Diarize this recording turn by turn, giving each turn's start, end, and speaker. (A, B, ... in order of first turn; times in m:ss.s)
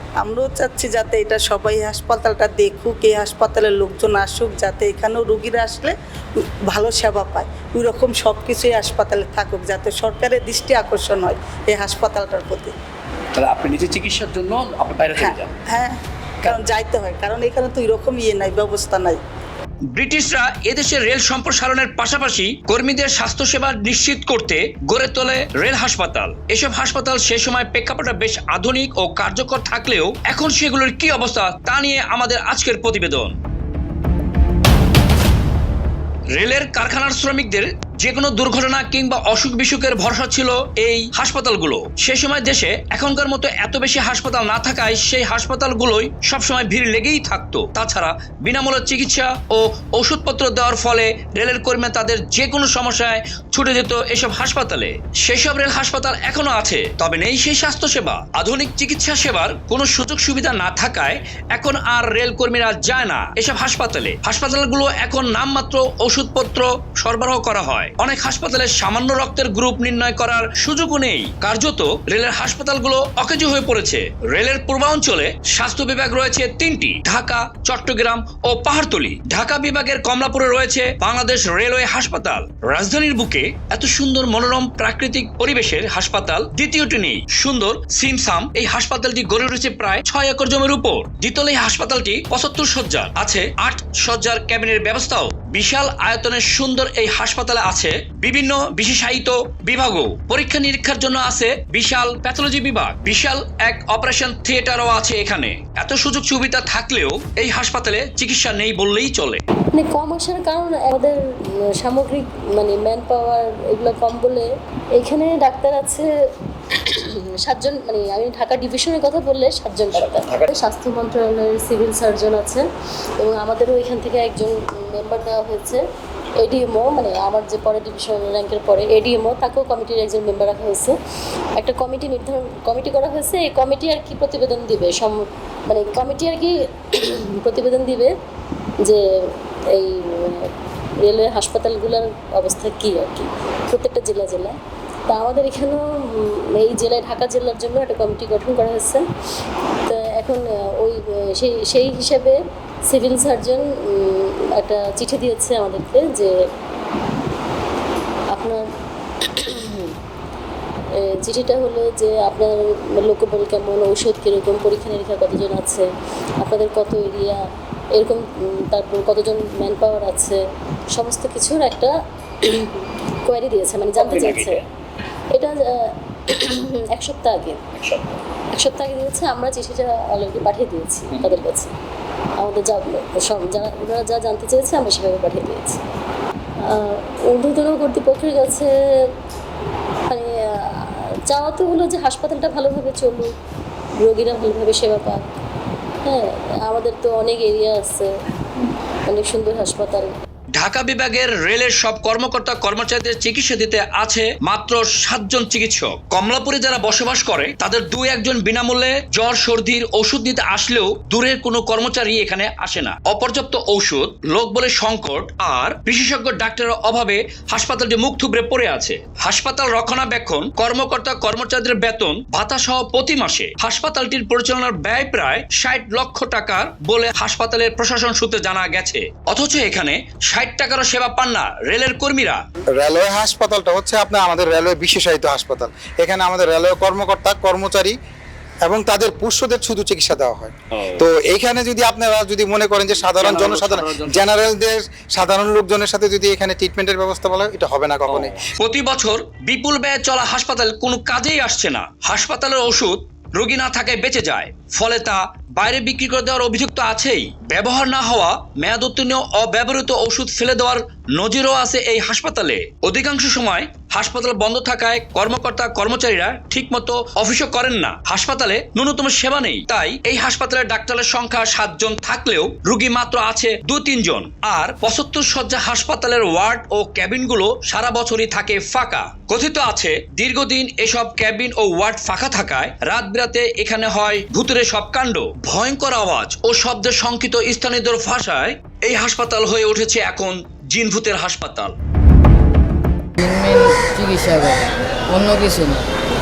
0:00.2-0:05.9 A
0:06.7-0:12.7 A
0:13.3-0:15.4 B
0:15.2-0:19.2 A
0:19.9-0:33.4 B
0:36.3-1:49.4 B
1:49.7-1:56.1 C
1:56.7-2:02.6 C
1:59.9-2:00.5 B
2:03.2-2:05.8 C
2:06.4-2:11.0 C
2:11.6-2:18.1 C
2:18.8-2:20.5 C
2:21.0-2:29.0 C
2:29.8-2:36.4 C
2:38.3-2:38.6 C
2:39.2-2:39.9 C
2:41.0-2:45.9 C
2:46.4-2:47.4 C
2:47.9-2:50.4 C
2:50.9-2:54.6 C
2:54.0-2:54.6 B
2:55.3-2:57.6 C
2:57.7-2:58.2 B
2:58.5-3:01.7 C
3:01.1-3:01.4 B
3:02.4-3:05.8 C
3:06.6-3:09.1 C
3:10.1-3:13.3 C
3:14.0-3:15.2 C
3:16.0-3:18.1 C
3:19.0-3:20.1 C
3:20.5-3:52.4 B
3:52.8-3:57.9 D
3:58.6-4:08.4 D
4:00.8-4:01.0 B
4:03.0-4:04.2 B
4:08.1-4:51.7 B
4:53.2-4:55.9 E